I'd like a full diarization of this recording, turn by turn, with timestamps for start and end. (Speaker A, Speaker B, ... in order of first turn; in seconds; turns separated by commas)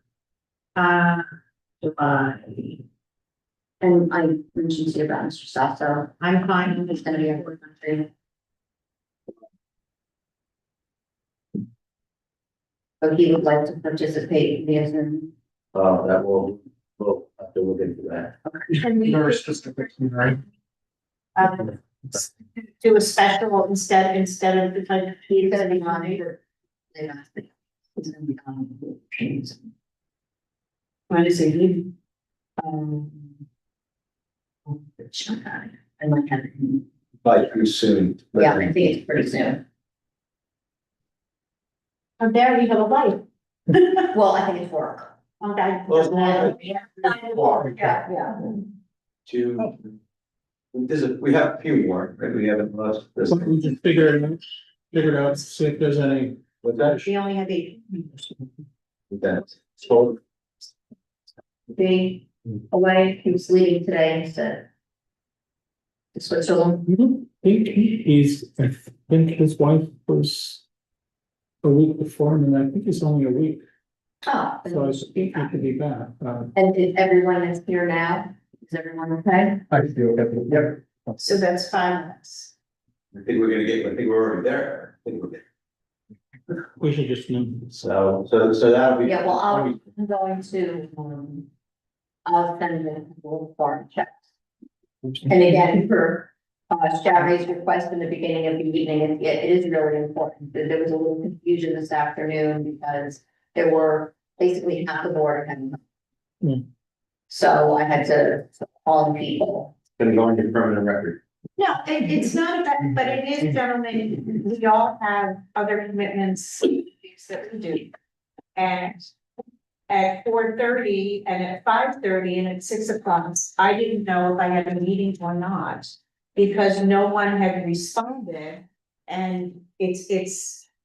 Speaker A: 0.8-1.3, Speaker A: 1.8-2.8, Speaker B: 3.8-8.1, Speaker A: 6.2-7.2, Speaker B: 13.0-15.3, Speaker C: 15.7-18.4, Speaker B: 18.4-18.9, Speaker A: 18.8-19.8, Speaker A: 21.4-26.2, Speaker B: 25.3-26.4, Speaker B: 26.9-29.6, Speaker A: 31.1-31.9, Speaker A: 32.6-33.3, Speaker B: 35.0-36.8, Speaker C: 37.2-38.7, Speaker B: 38.4-39.6, Speaker A: 42.2-43.2, Speaker A: 43.7-44.0, Speaker B: 44.1-45.1, Speaker A: 45.4-47.9, Speaker C: 45.9-46.5, Speaker B: 46.1-48.4, Speaker C: 47.3-47.8, Speaker C: 49.2-49.9, Speaker C: 50.7-53.5, Speaker D: 53.3-56.4, Speaker C: 56.6-57.0, Speaker A: 57.0-58.4, Speaker C: 59.1-60.2, Speaker B: 61.7-64.7, Speaker B: 66.1-66.8, Speaker D: 66.9-70.6, Speaker D: 71.6-73.6, Speaker B: 74.2-75.5, Speaker D: 74.7-76.5, Speaker B: 76.5-79.6, Speaker D: 79.8-80.6, Speaker A: 81.2-82.5, Speaker C: 83.1-85.4, Speaker D: 86.8-87.7, Speaker C: 87.7-89.8, Speaker B: 89.0-91.5, Speaker B: 92.2-94.2, Speaker B: 95.2-105.8, Speaker B: 107.3-109.7, Speaker C: 110.0-111.2, Speaker A: 111.6-117.9, Speaker A: 118.5-119.1, Speaker A: 119.9-130.7